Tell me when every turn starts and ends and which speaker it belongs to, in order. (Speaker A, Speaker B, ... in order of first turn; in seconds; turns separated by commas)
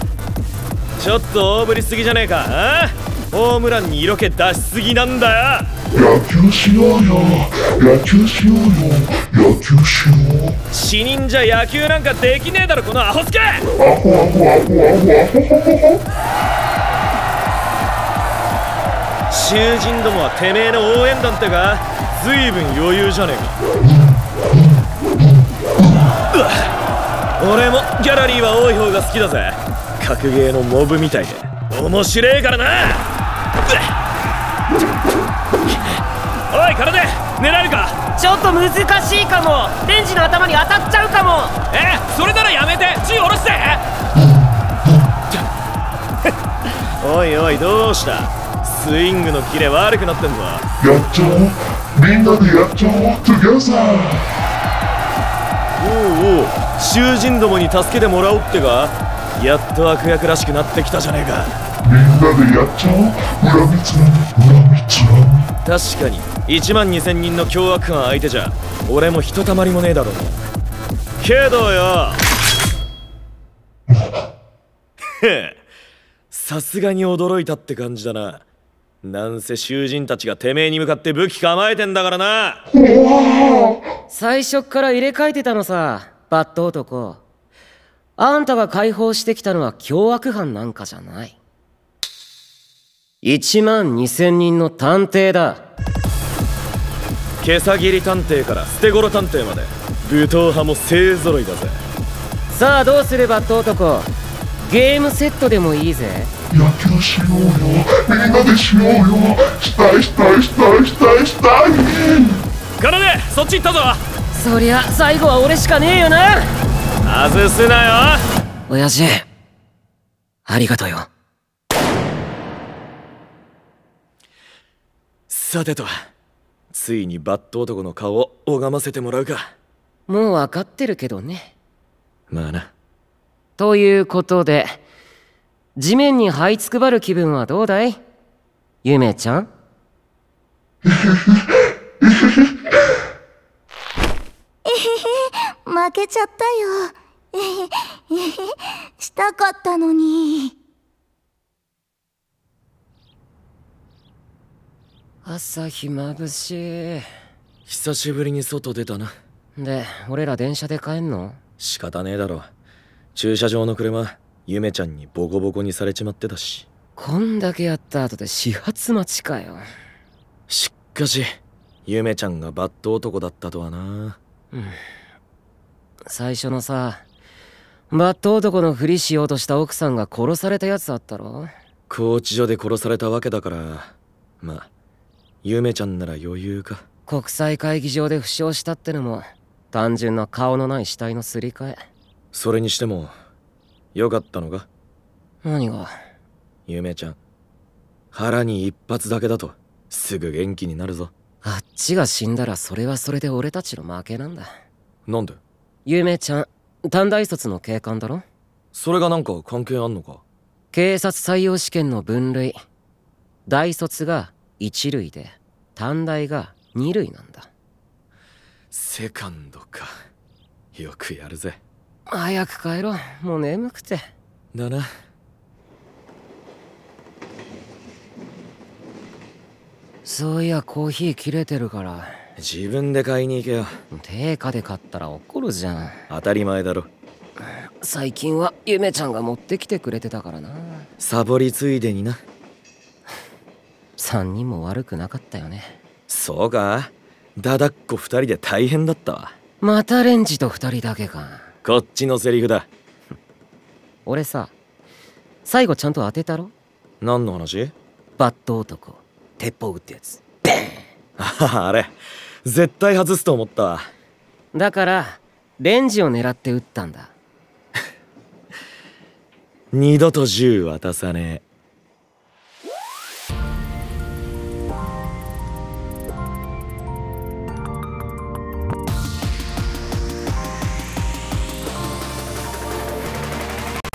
Speaker A: 1.0-5.7, Speaker B: 5.9-10.6, Speaker A: 10.7-13.7, Speaker B: 13.8-16.0, Speaker A: 19.3-23.6, Speaker B: 23.8-26.1, Speaker A: 26.3-26.6, Speaker A: 27.4-33.0, Speaker A: 35.7-38.0, Speaker C: 38.1-41.6, Speaker A: 41.7-43.8, Speaker B: 44.1-45.2, Speaker A: 47.0-50.6, Speaker B: 50.8-54.2, Speaker A: 55.8-61.6, Speaker B: 61.8-65.5, Speaker A: 65.7-70.5, Speaker A: 71.2-72.2, Speaker B: 73.9-74.2, Speaker A: 75.2-75.6, Speaker A: 76.3-78.4, Speaker A: 79.0-82.6, Speaker B: 82.7-83.8, Speaker C: 84.1-87.2, Speaker C: 88.2-91.4, Speaker C: 93.2-95.6, Speaker A: 97.4-101.8, Speaker C: 102.5-104.1, Speaker C: 104.7-106.3, Speaker B: 106.5-112.4, Speaker A: 112.8-114.0, Speaker C: 114.3-116.5, Speaker A: 117.0-118.2, Speaker C: 118.7-119.3, Speaker C: 120.5-121.1, Speaker A: 125.3-125.9, Speaker A: 126.7-129.5, Speaker C: 130.1-131.5, Speaker A: 132.3-132.7, Speaker C: 133.6-134.8, Speaker C: 135.8-138.0, Speaker C: 138.8-139.5, Speaker D: 144.7-148.4, Speaker D: 149.0-150.5, Speaker C: 155.2-157.1, Speaker A: 157.7-159.1, Speaker C: 159.6-161.4, Speaker A: 161.6-162.5, Speaker A: 163.2-166.7, Speaker C: 167.0-169.6, Speaker A: 170.5-171.3, Speaker A: 171.9-174.2, Speaker C: 174.5-174.8, Speaker C: 176.1-177.0, Speaker C: 177.9-181.5, Speaker A: 181.9-184.7, Speaker A: 185.4-186.8, Speaker C: 187.1-191.8, Speaker A: 192.3-193.1, Speaker A: 193.9-194.7, Speaker C: 195.4-195.9, Speaker A: 196.7-197.2, Speaker A: 198.1-201.1, Speaker C: 201.4-204.5, Speaker A: 205.1-205.4, Speaker C: 205.9-208.2, Speaker A: 208.7-210.2, Speaker C: 210.7-212.6, Speaker C: 213.5-217.5, Speaker A: 218.7-219.9, Speaker A: 220.7-221.6, Speaker C: 222.1-224.1, Speaker A: 224.5-224.9, Speaker C: 230.0-232.1, Speaker A: 232.4-233.8, Speaker C: 233.9-236.0, Speaker A: 236.1-236.9, Speaker C: 237.8-240.9, Speaker A: 241.0-242.2, Speaker C: 244.0-245.8, Speaker A: 246.1-249.3, Speaker C: 249.6-251.5, Speaker A: 251.6-252.7, Speaker C: 254.1-254.5, Speaker C: 255.4-256.5, Speaker A: 257.0-257.7, Speaker C: 258.2-260.8, Speaker A: 261.2-261.9, Speaker A: 262.4-263.9, Speaker C: 264.5-267.1, Speaker A: 269.7-271.4